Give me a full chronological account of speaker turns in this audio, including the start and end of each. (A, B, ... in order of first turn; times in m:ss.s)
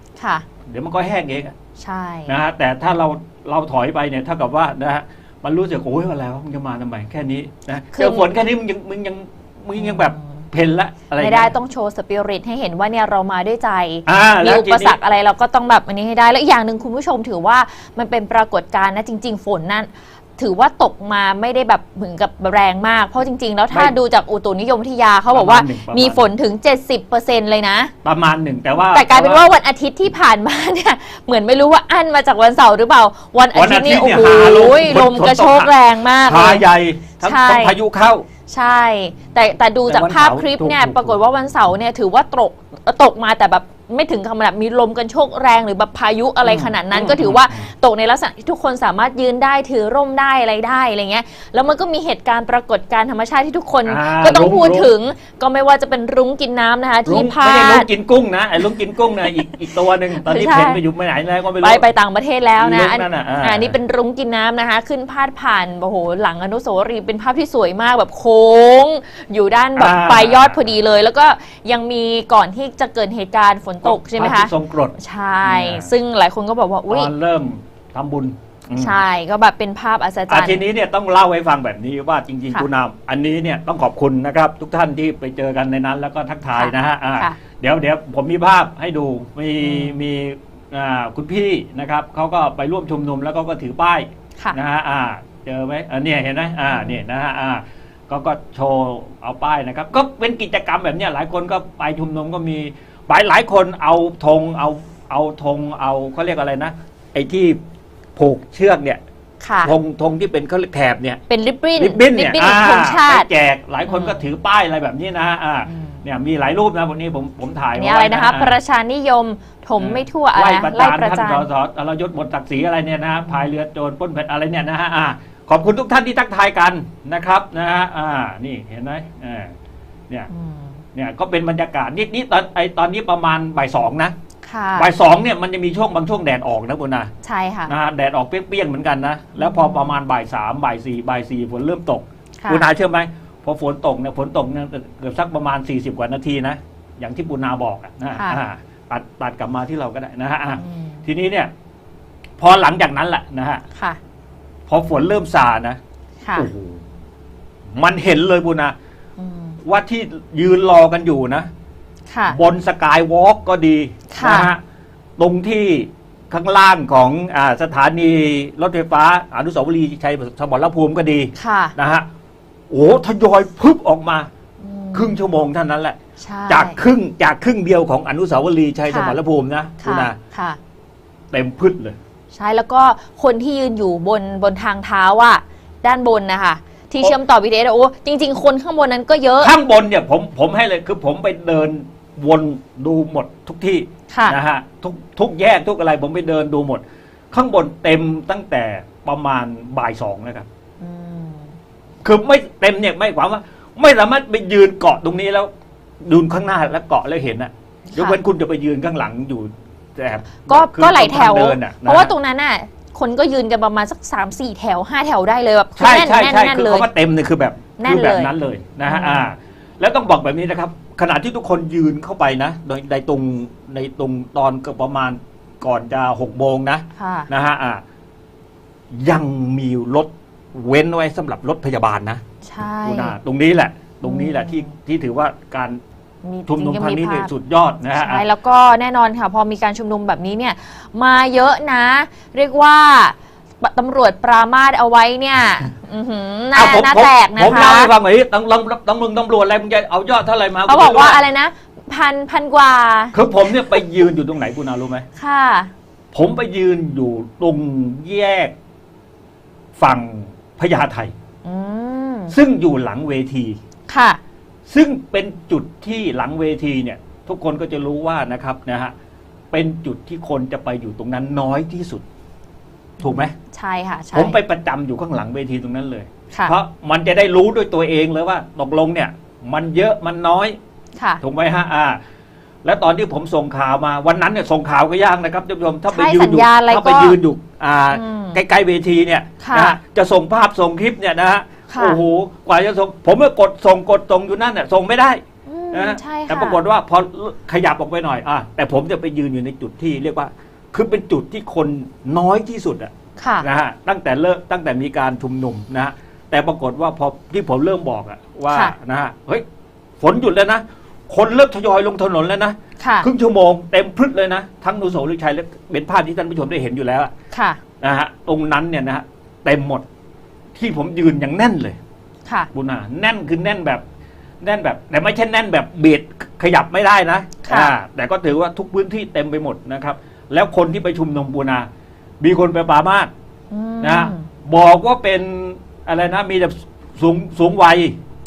0:00.2-0:00.4 A
0:00.7-0:01.5 B
0:01.8-0:02.4 A
0:02.3-0:11.6 B
0:07.9-0:08.3 A
0:09.8-0:10.4 A
0:11.2-0:27.9 A
0:14.1-0:15.0 B
0:23.7-0:24.0 B
0:25.3-0:26.3 B
0:28.0-0:29.5 B
0:28.9-0:36.6 A
0:33.5-0:38.3 B
0:37.2-0:37.8 A
0:38.5-0:57.9 A
0:39.9-0:41.2 B
0:46.4-0:47.7 B
0:53.8-0:54.9 B
0:57.1-1:01.9 B
1:00.2-1:00.8 A
1:01.6-1:17.1 A
1:02.6-1:03.8 B
1:09.8-1:10.7 B
1:13.8-1:15.9 B
1:16.9-1:19.0 B
1:18.8-1:20.6 A
1:20.3-1:47.6 B
1:26.5-1:27.4 A
1:29.6-1:30.0 A
1:36.7-1:37.0 A
1:48.2-1:49.0 B
1:49.4-1:49.8 A
1:49.6-1:51.2 B
1:51.3-1:53.3 A
1:51.8-1:58.6 B
1:53.9-1:54.2 A
1:55.7-1:56.0 A
1:57.7-2:01.5 A
1:59.8-2:09.5 B
2:10.3-2:10.8 A
2:10.9-2:14.1 B
2:14.4-2:14.9 A
2:14.8-2:17.1 B
2:17.2-2:17.7 A
2:17.7-2:31.5 B
2:19.4-2:20.0 A
2:22.4-2:22.7 A
2:28.1-2:28.4 A
2:30.6-2:31.0 A
2:32.4-2:33.6 B
2:33.7-2:34.0 A
2:34.7-2:35.8 B
2:36.2-2:36.5 A
2:36.4-2:36.8 B
2:37.8-2:38.8 B
2:39.2-2:39.6 A
2:39.6-2:41.5 B
2:42.1-2:42.4 A
2:42.3-2:44.6 B
2:44.1-2:44.5 A
2:45.2-2:52.1 B
2:51.4-2:51.7 A
2:52.7-2:54.3 B
2:54.6-2:55.2 A
2:54.9-2:56.0 B
2:56.2-2:56.8 A
2:56.5-3:00.2 B
2:58.9-2:59.2 A
2:59.8-3:00.6 A
3:01.3-3:02.0 B
3:02.3-3:09.5 A
3:09.4-3:20.5 B
3:14.1-3:14.4 A
3:20.8-3:21.5 A
3:22.0-3:25.5 B
3:26.0-3:32.1 B
3:27.9-3:28.2 A
3:30.5-3:36.9 A
3:35.8-3:47.8 B
3:37.8-3:38.3 A
3:38.9-3:39.3 A
3:47.0-3:47.3 A
3:48.9-3:52.2 B
3:52.4-3:53.2 A
3:52.8-3:55.8 B
3:54.0-3:54.7 A
3:56.2-3:57.3 A
3:56.5-3:58.2 B
3:57.9-4:07.9 A
4:06.5-4:11.2 B
4:10.7-4:13.2 A
4:13.1-4:15.1 B
4:15.2-4:15.7 A
4:16.1-4:18.5 B
4:19.8-4:21.1 B
4:21.4-4:22.4 A
4:22.3-4:23.6 B
4:23.9-4:24.2 A
4:24.7-4:28.9 B
4:29.5-4:32.0 B
4:33.0-4:33.4 B
4:33.0-4:34.4 A
4:34.1-4:40.6 B
4:41.0-4:41.2 A
4:41.2-4:42.0 B
4:42.6-4:55.2 B
4:45.9-4:47.2 A
4:47.9-4:48.4 A
4:49.4-4:49.8 A
4:51.7-4:52.0 A
4:55.5-4:56.6 A
4:55.7-5:09.4 B
5:03.2-5:03.5 A
5:08.5-5:08.8 A
5:10.0-5:17.1 B
5:12.8-5:13.1 A
5:17.3-5:17.6 A
5:17.8-5:19.8 B
5:20.6-5:21.8 B
5:22.5-5:23.8 B
5:24.4-5:31.7 B
5:27.4-5:27.7 A
5:32.2-5:33.1 B
5:33.5-5:34.3 A
5:33.8-5:38.0 B